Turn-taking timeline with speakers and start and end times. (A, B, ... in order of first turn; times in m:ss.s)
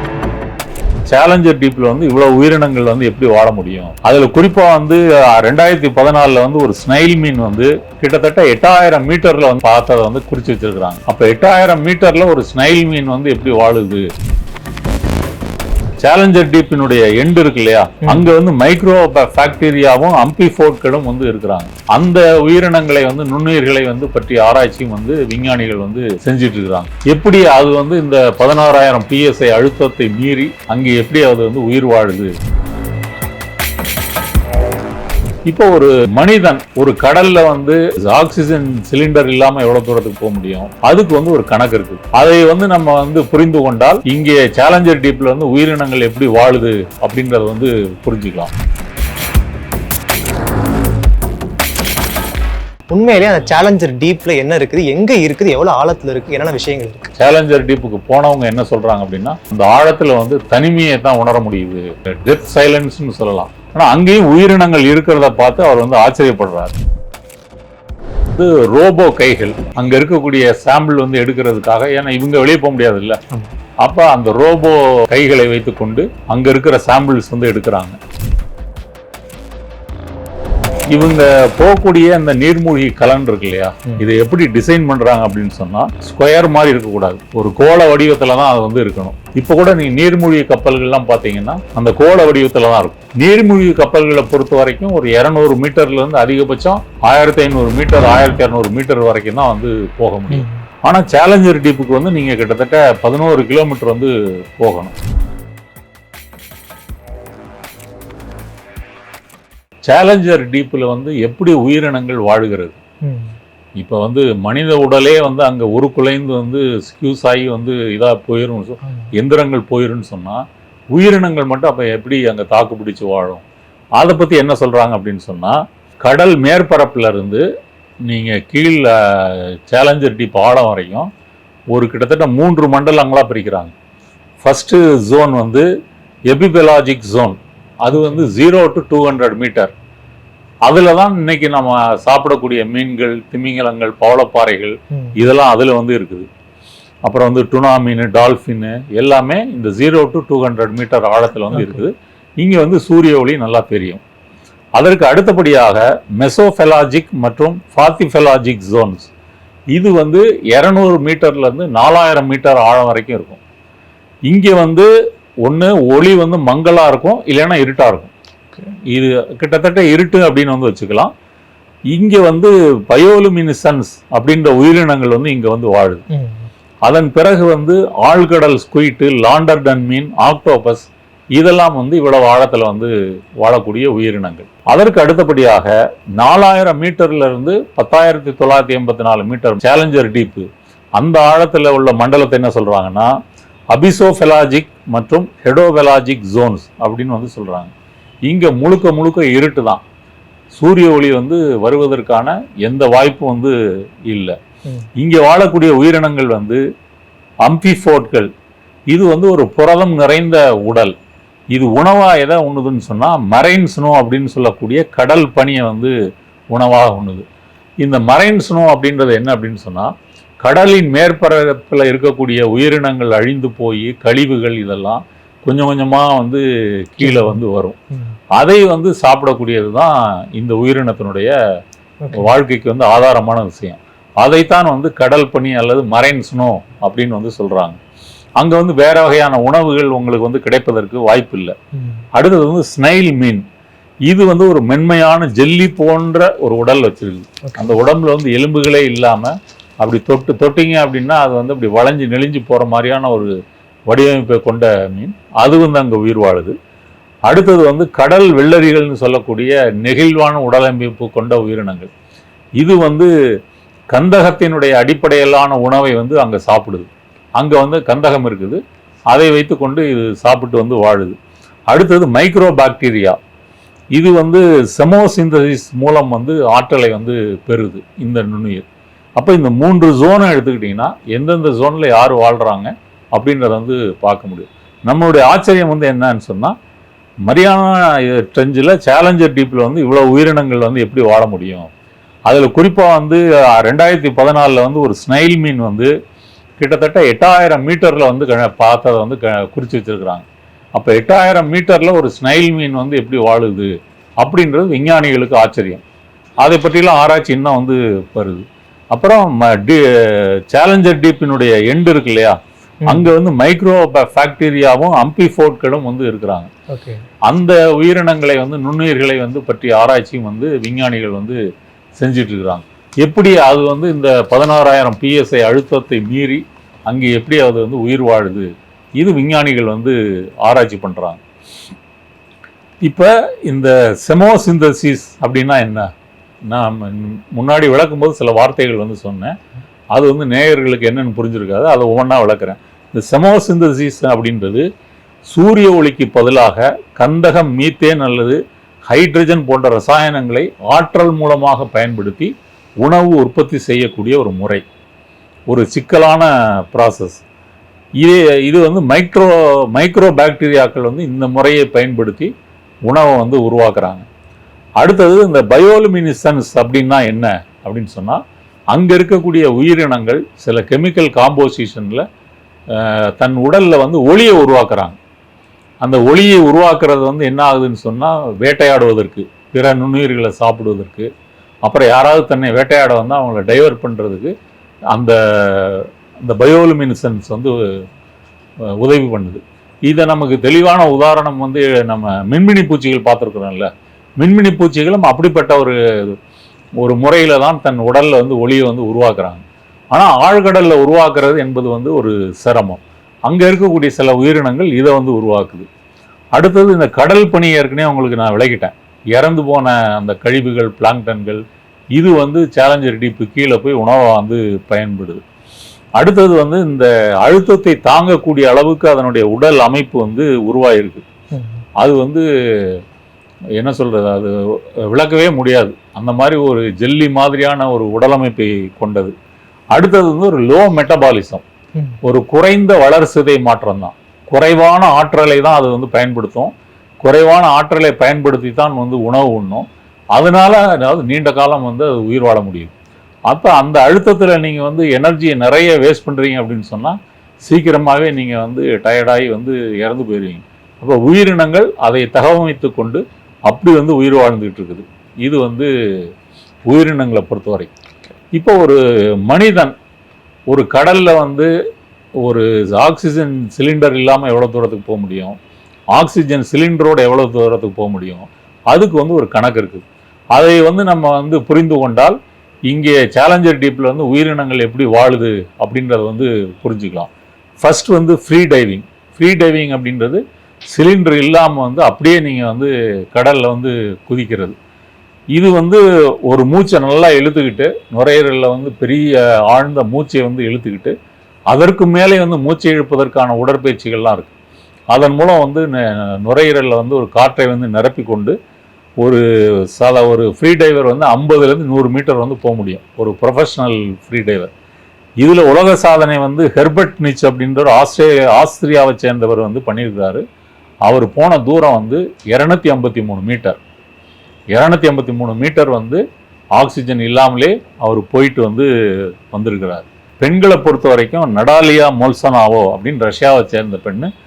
0:01.1-0:14.0 A
0:16.0-0:32.3 A
0:18.0-0:18.3 B
0:35.5-0:48.5 A
0:52.9-0:57.1 B
0:57.2-1:06.7 A
1:08.3-1:13.2 A
1:13.8-1:18.0 A
1:20.9-1:44.9 A
1:40.3-1:40.6 B
1:49.8-1:52.8 A
1:53.0-1:53.4 B
1:53.8-2:00.4 A
1:58.8-1:59.1 B
2:00.9-2:03.4 A
2:04.0-2:07.4 A
2:08.1-2:11.1 A
2:11.7-2:13.7 A
2:14.4-2:15.7 A
2:16.3-2:19.7 A
2:20.6-2:26.3 A
2:27.0-2:34.0 A
2:31.5-2:31.8 B
2:34.8-2:39.1 A
2:39.7-2:43.4 A
2:44.3-2:44.9 A
2:45.4-2:48.1 A
2:48.9-2:51.1 A
2:51.9-2:56.0 A
2:56.1-2:56.5 B
2:56.8-3:13.1 A
3:13.7-3:17.7 A
3:18.3-3:19.8 A
3:20.5-3:23.5 A
3:24.1-3:24.4 A
3:25.0-3:26.6 A
3:27.4-3:28.3 A
3:28.9-3:31.0 A
3:31.5-3:35.9 A
3:36.5-3:37.2 A
3:37.8-3:47.8 A
3:47.0-3:47.4 B
3:48.3-3:51.4 A
3:52.0-3:52.3 B
3:52.1-3:57.8 A
3:58.4-4:01.5 A
4:01.8-4:02.0 B
4:02.1-4:03.4 A
4:04.1-4:13.3 A
4:07.5-4:07.8 B
4:13.9-4:16.6 A
4:17.3-4:21.9 A
4:22.6-4:23.1 A
4:23.9-4:28.6 A
4:29.1-4:31.2 A
4:31.7-4:33.2 A
4:33.9-4:38.7 A
4:39.2-4:46.6 A
4:47.3-4:51.7 A
4:52.3-4:55.9 A
4:56.6-5:05.8 A
5:06.4-5:16.5 A
5:12.8-5:13.1 B
5:16.7-5:17.0 B
5:17.3-5:21.4 A
5:22.0-5:31.2 A
5:32.8-5:35.9 A
5:36.5-5:39.4 A
5:39.9-5:44.7 A
5:45.3-5:54.6 A
5:55.5-5:57.2 A
5:58.0-6:02.3 A
6:02.9-6:04.0 A
6:04.8-6:12.0 A
6:12.7-6:15.0 A
6:15.8-6:21.1 A
6:21.6-6:24.3 A
6:24.9-6:27.6 A
6:28.8-6:36.2 A
6:36.8-6:45.7 A
6:46.3-6:51.4 A
6:52.0-6:55.2 A
6:56.0-7:01.0 A
7:01.3-7:01.6 B
7:01.8-7:02.8 A
7:03.6-7:09.1 A
7:09.7-7:11.4 A
7:12.0-7:22.7 A
7:23.3-7:36.1 A
7:36.7-7:37.7 A
7:38.3-7:39.8 A
7:40.5-7:41.5 A
7:42.2-7:45.4 A
7:45.9-7:52.2 A
7:52.7-8:04.6 A
8:05.3-8:10.9 A
8:11.5-8:14.3 A
8:14.9-8:18.4 A
8:19.7-8:24.5 A
8:25.2-8:30.2 A
8:30.9-8:33.6 A
8:34.5-8:36.0 A
8:36.6-8:44.1 A